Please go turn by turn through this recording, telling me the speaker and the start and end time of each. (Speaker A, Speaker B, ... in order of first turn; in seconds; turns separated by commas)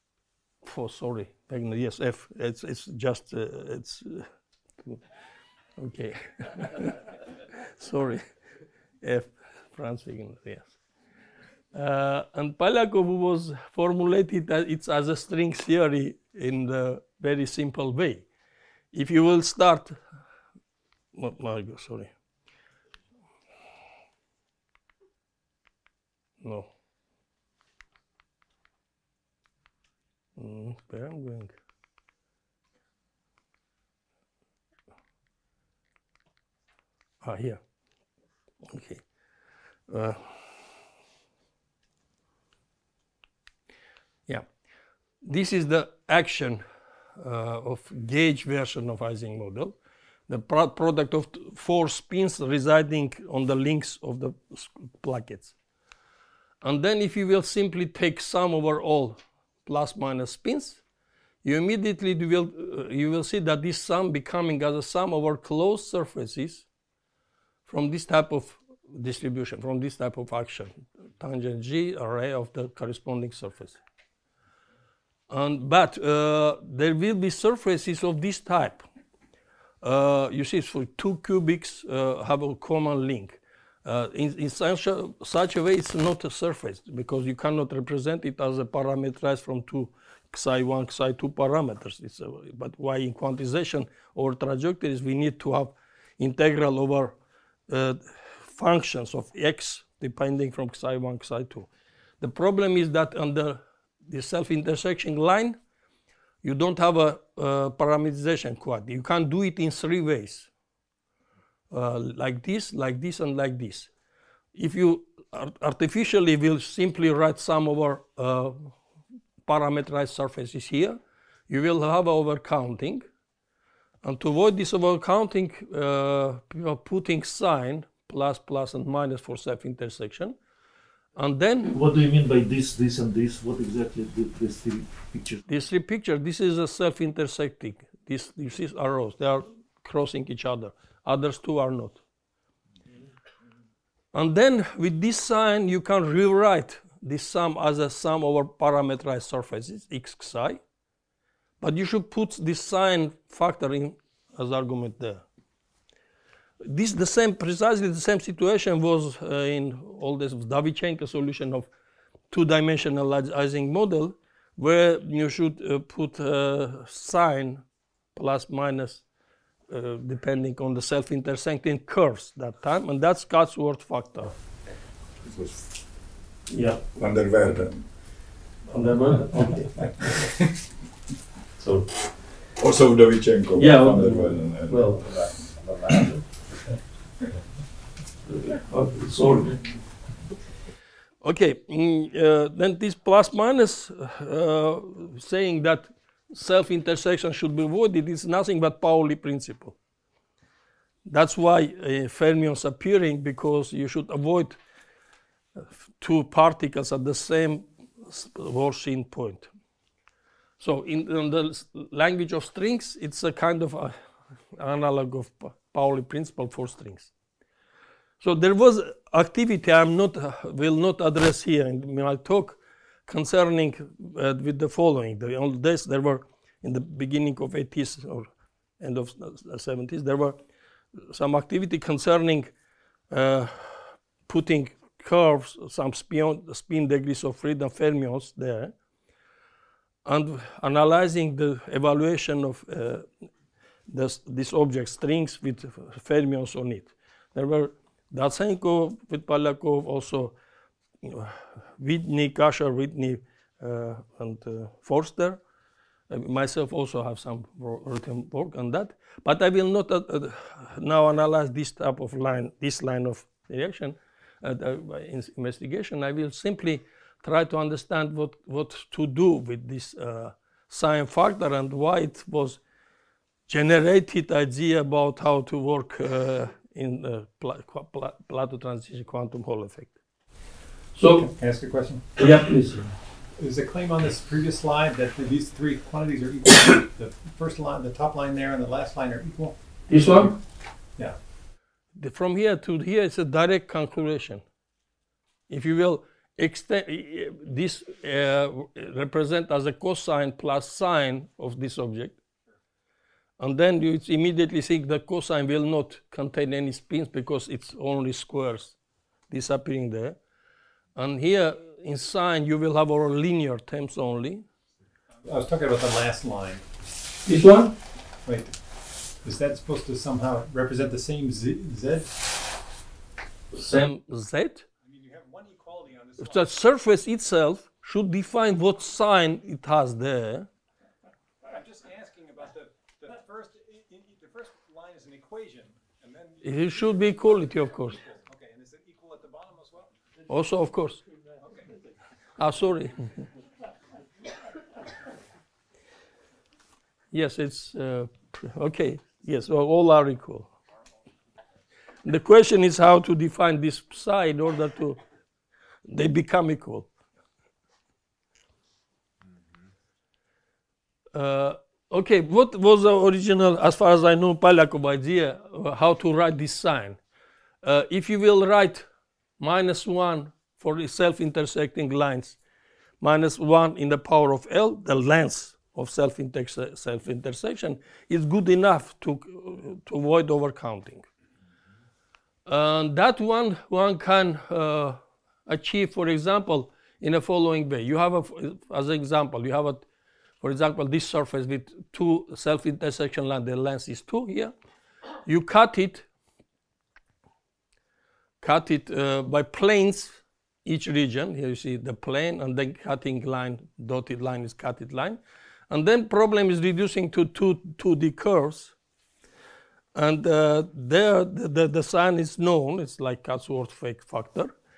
Speaker A: 0.6-4.3, Speaker A: 5.8-8.2, Speaker A: 9.0-10.8, Speaker A: 11.7-18.2, Speaker A: 18.9-20.0, Speaker A: 21.1-22.1, Speaker A: 26.4-26.7, Speaker A: 30.4-31.5, Speaker A: 37.2-37.6, Speaker A: 38.6-39.0, Speaker A: 39.9-40.3, Speaker A: 45.2-46.6, Speaker A: 47.2-49.7, Speaker A: 50.3-55.5, Speaker A: 56.6-60.8, Speaker A: 61.4-66.7, Speaker A: 67.7-73.8, Speaker A: 75.3-78.8, Speaker A: 79.8-97.1, Speaker A: 97.7-101.7, Speaker A: 102.2-105.6, Speaker A: 106.4-110.5, Speaker A: 111.7-113.9, Speaker A: 114.5-118.7, Speaker A: 119.5-123.0, Speaker A: 124.0-130.3, Speaker A: 131.2-131.7, Speaker B: 131.7-135.4, Speaker A: 135.5-142.0, Speaker A: 144.1-150.6, Speaker A: 151.6-155.2, Speaker A: 156.6-161.7, Speaker A: 162.3-167.6, Speaker A: 168.2-169.0, Speaker A: 169.7-174.3, Speaker C: 175.2-175.6, Speaker A: 176.5-176.9, Speaker C: 176.9-177.8, Speaker A: 178.7-180.1, Speaker A: 181.6-181.9, Speaker C: 182.6-186.1, Speaker A: 183.6-185.2, Speaker A: 188.3-189.7, Speaker A: 191.2-199.8, Speaker A: 201.1-204.6, Speaker A: 206.0-209.5, Speaker A: 210.6-213.9, Speaker A: 214.5-217.1, Speaker A: 218.2-228.3, Speaker A: 228.8-230.4, Speaker A: 231.0-232.5, Speaker A: 233.1-238.7, Speaker A: 240.0-243.1, Speaker A: 243.9-250.3, Speaker A: 251.0-255.4, Speaker A: 256.1-272.6, Speaker A: 273.5-280.0, Speaker A: 280.9-281.3, Speaker D: 281.1-282.1, Speaker A: 282.2-282.9, Speaker D: 283.4-290.3, Speaker A: 289.9-290.3, Speaker A: 291.9-294.4, Speaker A: 295.5-302.2, Speaker A: 303.4-308.8, Speaker A: 309.3-310.2, Speaker A: 311.0-314.5, Speaker D: 315.2-316.6, Speaker A: 317.2-317.7, Speaker D: 318.2-318.6, Speaker D: 319.2-322.2, Speaker A: 323.5-324.7, Speaker D: 324.8-326.5, Speaker A: 326.2-330.5, Speaker D: 331.4-339.9, Speaker A: 336.4-338.0, Speaker A: 340.3-341.0, Speaker D: 341.4-341.8, Speaker A: 342.4-343.2, Speaker A: 347.1-350.5, Speaker A: 352.0-355.0, Speaker A: 355.9-356.9, Speaker A: 361.1-367.0, Speaker A: 367.6-368.9, Speaker A: 369.4-372.4, Speaker A: 373.0-381.1, Speaker A: 382.5-389.8, Speaker A: 390.4-394.5, Speaker A: 395.2-396.1, Speaker A: 398.4-405.2, Speaker A: 405.7-408.7, Speaker A: 409.9-414.5